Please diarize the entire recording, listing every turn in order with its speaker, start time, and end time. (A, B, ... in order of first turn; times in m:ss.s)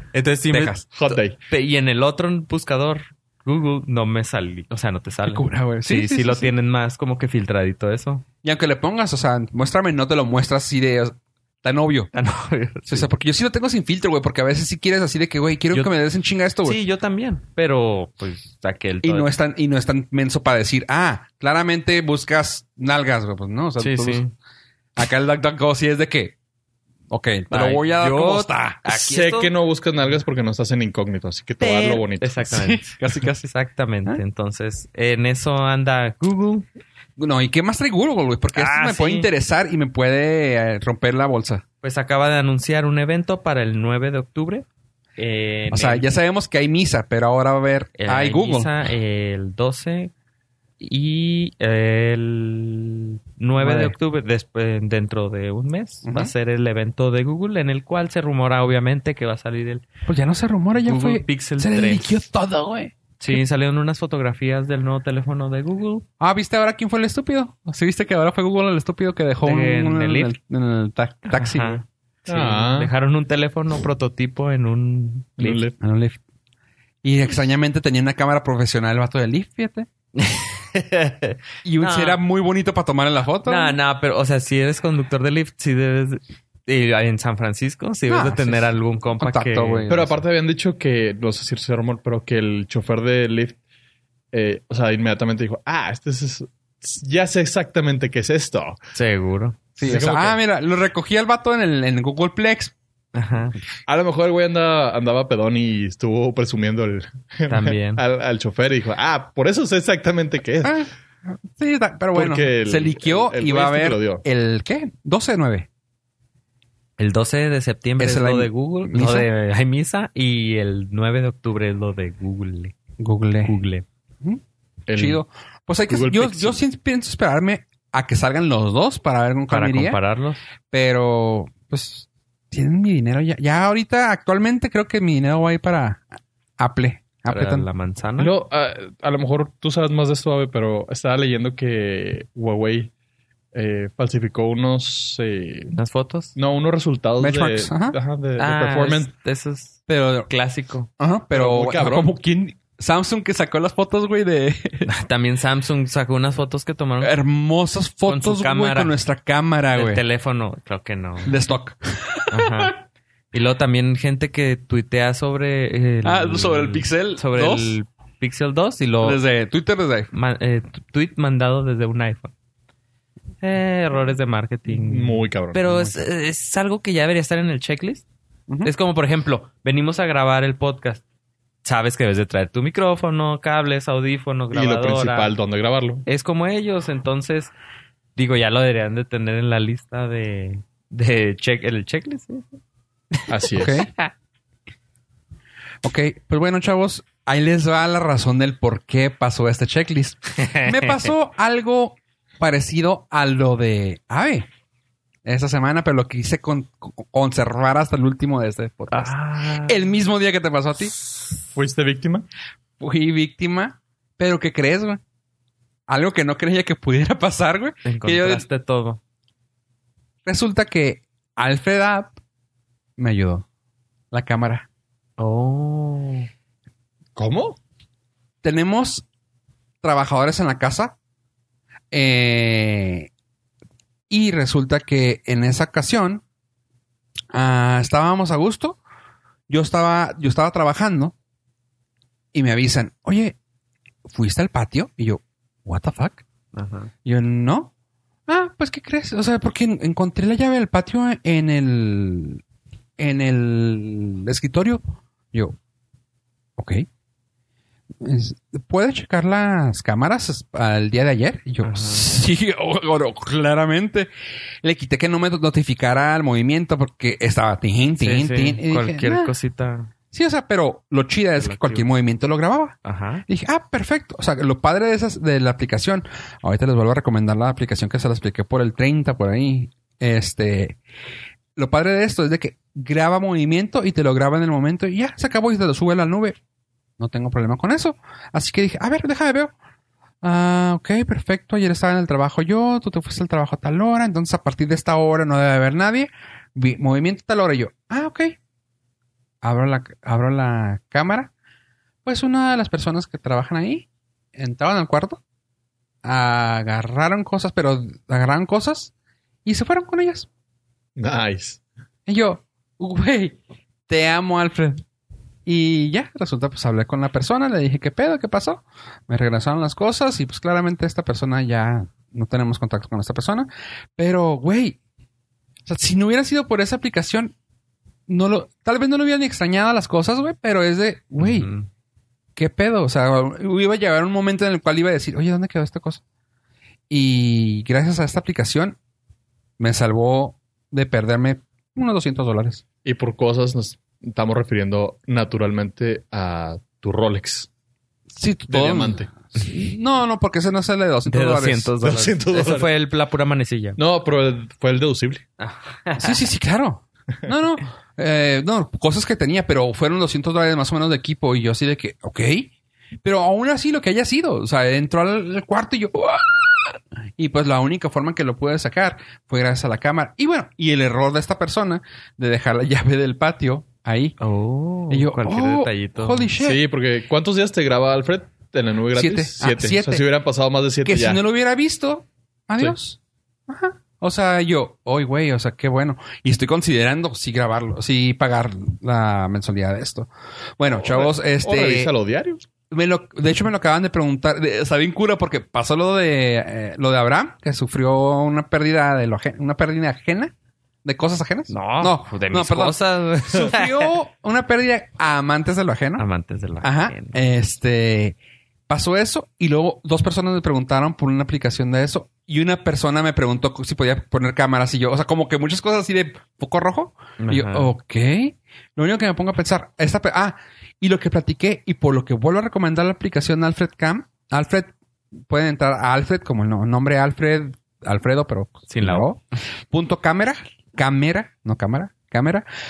0:00.1-0:08.2 A
0:00.5-0:00.8 B
0:00.9-0:01.4 C
0:05.2-0:06.5 B
0:08.4-0:12.1 B
0:12.1-0:13.1 A
0:12.9-0:16.8 B
0:16.6-0:19.3 A
0:19.0-0:24.2 B
0:23.8-0:24.3 A
0:25.0-0:26.3 B
0:27.1-0:28.8 B
0:27.5-0:29.5 A
0:28.9-0:32.4 C
0:31.6-0:36.6 A
0:32.5-0:33.5 B
0:37.2-0:41.6 B
0:38.5-0:39.3 A
0:41.8-0:44.6 A
0:45.2-0:46.1 A
0:45.7-0:48.7 B
0:48.0-0:50.1 A
0:50.8-0:59.9 A
0:53.6-0:54.0 B
0:56.0-0:56.3 B
1:00.0-1:03.4 B
1:00.8-1:02.2 A
1:03.2-1:06.0 A
1:06.2-1:11.8 B
1:09.4-1:10.3 A
1:11.3-1:15.6 A
1:12.3-1:12.9 C
1:15.4-1:15.8 C
1:15.8-1:16.2 B
1:17.0-1:19.9 B
1:20.2-1:22.2 A
1:21.6-1:23.8 B
1:23.4-1:30.1 A
1:28.1-1:30.1 B
1:29.9-1:33.6 C
1:34.3-1:38.8 C
1:38.9-1:39.8 A
1:39.8-1:42.7 B
1:39.8-1:40.4 C
1:43.1-1:43.6 A
1:43.9-1:50.7 C
1:47.5-1:48.0 A
1:50.6-1:55.7 B
1:52.1-1:54.2 C
1:57.0-2:02.8 A
1:58.0-1:59.3 B
2:03.0-2:03.5 B
2:03.4-2:03.8 A
2:04.9-2:05.2 C
2:04.9-2:10.0 B
2:05.9-2:06.6 C
2:09.5-2:10.4 A
2:10.7-2:16.1 B
2:16.6-2:17.7 B
2:17.3-2:18.3 A
2:18.2-2:22.9 C
2:23.5-2:25.8 C
2:25.7-2:26.4 A
2:26.4-2:29.1 C
2:27.2-2:28.0 B
2:28.4-2:30.9 A
2:29.9-2:30.3 B
2:31.0-2:34.9 B
2:31.3-2:32.1 C
2:34.8-2:37.2 A
2:37.0-2:40.0 B
2:38.0-2:38.9 A
2:39.7-2:41.4 A
2:41.2-2:42.7 B
2:42.3-2:42.7 A
2:43.3-2:49.2 A
2:46.0-2:47.8 B
2:49.0-2:50.1 B
2:50.1-2:52.3 A
2:53.4-2:58.0 A
2:54.7-2:56.0 C
2:58.6-3:01.0 A
3:01.6-3:05.3 A
3:04.5-3:06.0 C
3:06.0-3:07.5 A
3:08.2-3:12.4 A
3:13.1-3:14.1 A
3:13.3-3:13.8 C
3:13.6-3:13.9 B
3:15.8-3:24.5 B
3:20.4-3:21.1 A
3:25.2-3:30.9 B
3:28.9-3:29.8 A
3:31.5-3:32.2 C
3:32.8-3:35.0 B
3:35.9-3:38.4 B
3:37.8-3:39.0 A
3:40.2-3:42.1 B
3:43.0-3:43.4 B
3:44.1-3:44.6 B
3:45.2-3:46.3 A
3:47.2-3:47.6 C
3:48.4-3:49.0 B
3:49.8-3:51.0 B
3:51.9-3:53.1 B
3:54.1-3:56.2 B
3:57.3-3:58.8 B
3:59.5-4:01.1 B
4:02.3-4:03.4 B
4:04.1-4:06.2 B
4:06.5-4:06.9 A
4:07.0-4:07.7 B
4:08.3-4:12.4 B
4:13.0-4:15.6 B
4:16.6-4:16.8 B
4:18.0-4:24.1 B
4:21.6-4:22.1 A
4:24.6-4:29.3 B
4:28.0-4:29.9 A
4:30.1-4:40.8 B
4:31.4-4:31.8 A
4:32.8-4:33.2 A
4:41.6-4:46.4 B
4:47.0-4:49.5 B
4:50.2-4:58.4 B
4:59.4-5:01.3 B
5:02.0-5:05.2 B
5:06.0-5:08.9 B
5:09.4-5:10.3 B
5:11.0-5:11.6 C
5:12.1-5:14.8 B
5:15.4-5:24.8 B
5:25.6-5:27.3 B
5:28.1-5:31.5 B
5:31.2-5:31.7 A
5:32.4-5:36.0 B
5:36.9-5:38.8 B
5:39.6-5:42.6 B
5:42.8-5:47.5 C
5:48.1-5:51.7 B
5:48.5-5:49.1 C
5:51.1-5:53.8 A
5:51.8-5:52.7 C
5:53.8-5:55.2 C
5:55.4-5:56.2 A
5:56.0-6:02.5 B
6:03.0-6:14.2 B
6:14.2-6:16.3 A
6:14.9-6:16.6 B
6:16.4-6:21.2 C
6:18.9-6:20.0 B
6:20.8-6:31.9 B
6:30.7-6:32.4 C
6:32.7-6:40.3 B
6:40.8-6:46.0 B
6:41.5-6:43.9 A
6:46.0-6:47.2 A
6:46.6-6:48.2 B
6:48.7-7:04.7 B
6:57.2-6:57.7 A
7:05.3-7:12.4 B
7:08.7-7:09.1 A